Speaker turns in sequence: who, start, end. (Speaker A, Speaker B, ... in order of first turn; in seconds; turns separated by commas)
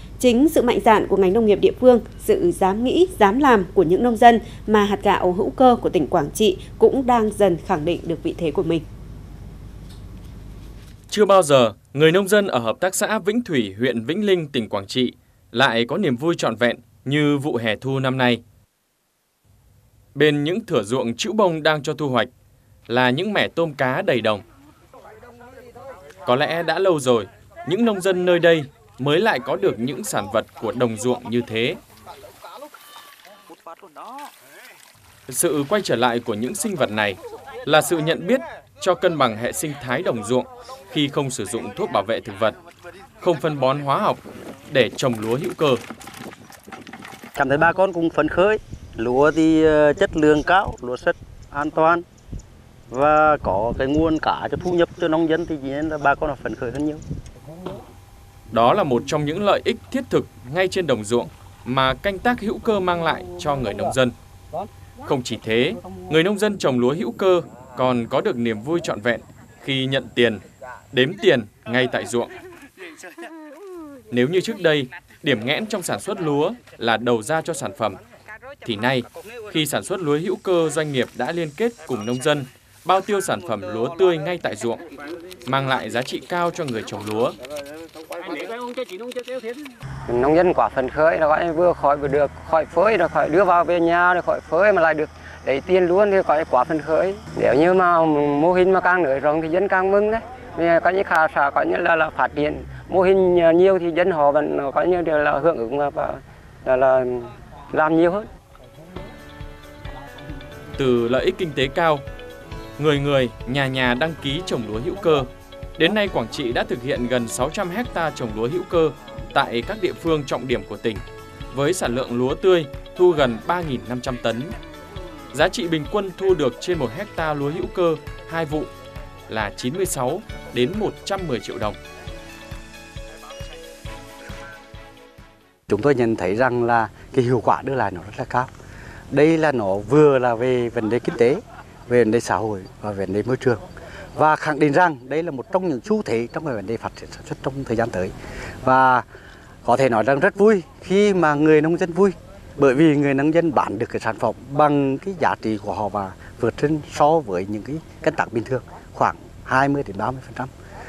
Speaker A: 0.2-8.8, Speaker B: 11.1-18.4, Speaker B: 20.1-22.3, Speaker B: 22.9-24.4, Speaker B: 26.2-31.8, Speaker B: 35.3-42.6, Speaker B: 43.2-45.8, Speaker C: 47.4-52.0, Speaker C: 52.9-57.0, Speaker B: 58.5-64.1, Speaker B: 65.0-72.3, Speaker B: 74.1-78.0, Speaker B: 78.7-84.8, Speaker B: 85.5-87.4, Speaker D: 90.1-108.3, Speaker B: 110.8-112.0, Speaker B: 112.8-124.5, Speaker B: 125.3-128.7, Speaker B: 129.3-131.8, Speaker C: 135.7-138.5, Speaker C: 139.1-143.6, Speaker C: 144.2-149.1, Speaker C: 149.6-160.5